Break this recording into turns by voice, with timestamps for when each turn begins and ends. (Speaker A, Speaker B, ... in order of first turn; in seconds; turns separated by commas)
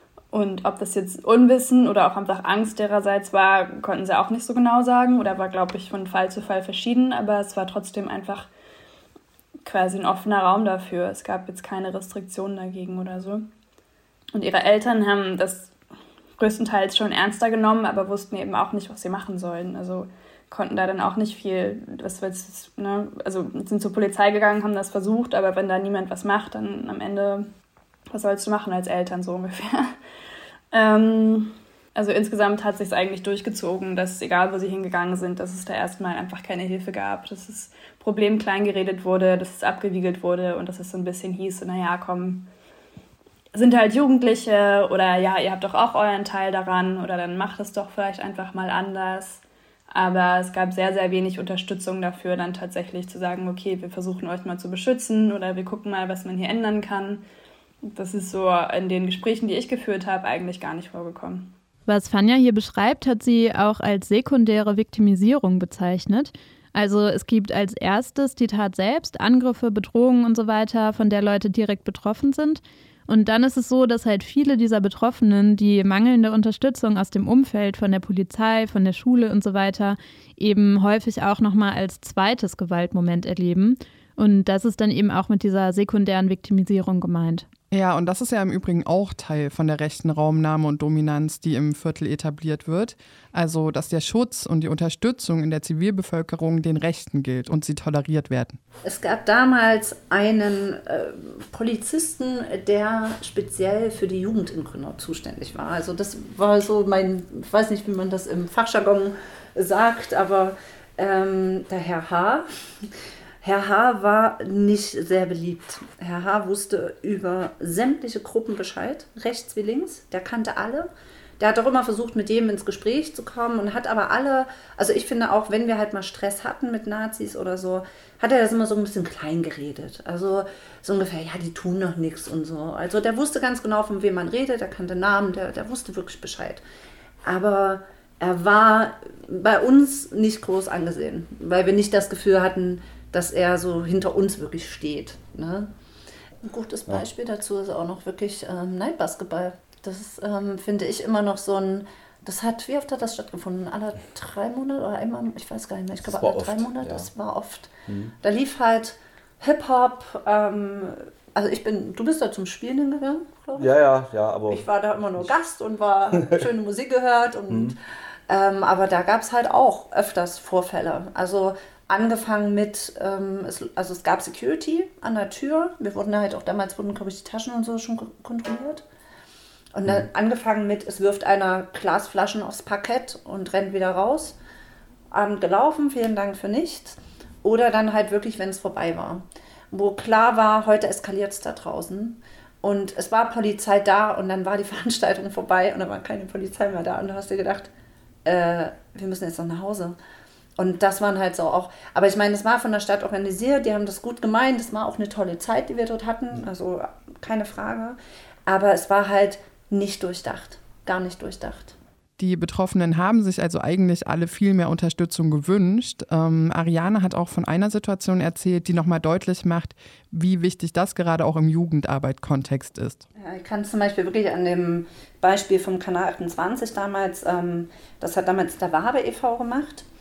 Speaker A: 0.3-8.5, Speaker A: 9.7-13.4, Speaker A: 14.3-15.7, Speaker A: 16.4-27.5, Speaker A: 28.1-30.0, Speaker A: 30.7-42.5, Speaker A: 43.5-57.2, Speaker A: 57.9-61.5, Speaker B: 61.9-87.5, Speaker C: 87.7-98.6, Speaker D: 98.8-112.9, Speaker D: 113.4-136.6, Speaker D: 137.2-145.7, Speaker D: 146.4-163.7, Speaker E: 156.0-157.1, Speaker E: 157.9-158.1, Speaker E: 163.6-164.7, Speaker D: 164.5-167.8, Speaker E: 167.5-167.7, Speaker D: 168.3-178.8, Speaker D: 179.7-184.4, Speaker D: 185.1-197.7, Speaker D: 198.2-199.9, Speaker D: 200.6-211.8, Speaker C: 212.2-223.0, Speaker D: 223.2-229.8